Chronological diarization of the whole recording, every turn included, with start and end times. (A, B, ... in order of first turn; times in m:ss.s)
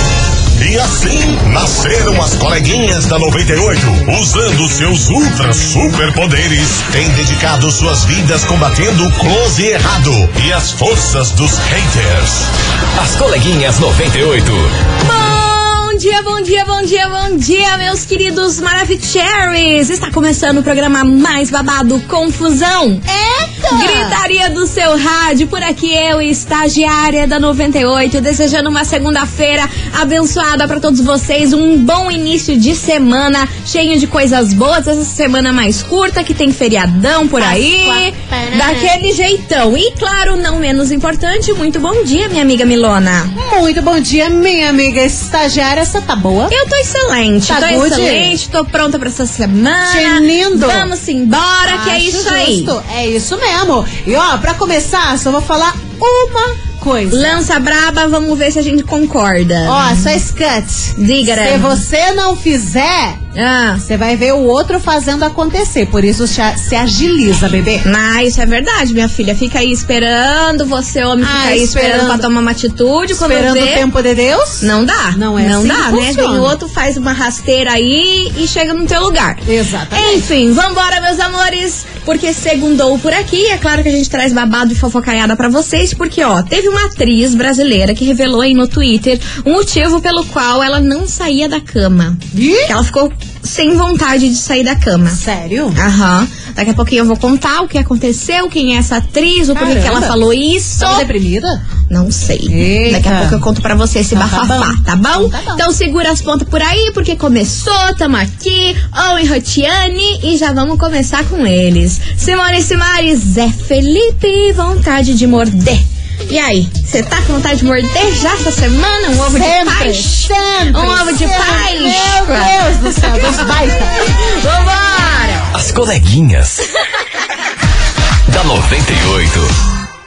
0:00.6-0:12.5 A
0:13.0-0:14.7 B
0:15.0-0:23.0 C
0:23.1-0:24.2 D
0:23.7-0:43.4 C
0:37.4-0:38.9 D
0:43.4-0:46.5 D
0:46.5-0:52.7 C
0:47.5-0:48.4 D
0:49.9-0:50.9 D
0:51.6-0:57.4 D
0:57.1-1:00.2 C
0:59.7-1:03.2 D
1:01.0-1:01.8 C
1:03.4-1:03.8 C
1:03.8-1:07.8 D
1:07.8-1:13.8 C
1:11.2-1:12.3 D
1:13.1-1:16.6 D
1:14.6-1:35.2 C
1:19.5-1:20.3 D
1:32.3-1:32.7 D
1:35.1-1:35.8 D
1:35.8-1:41.1 C
1:39.5-1:40.2 D
1:40.8-1:41.6 D
1:41.9-2:05.5 C
1:42.5-1:43.4 D
1:44.1-1:45.6 D
1:59.2-2:03.9 D
2:05.5-2:06.6 B
2:08.3-2:09.5 B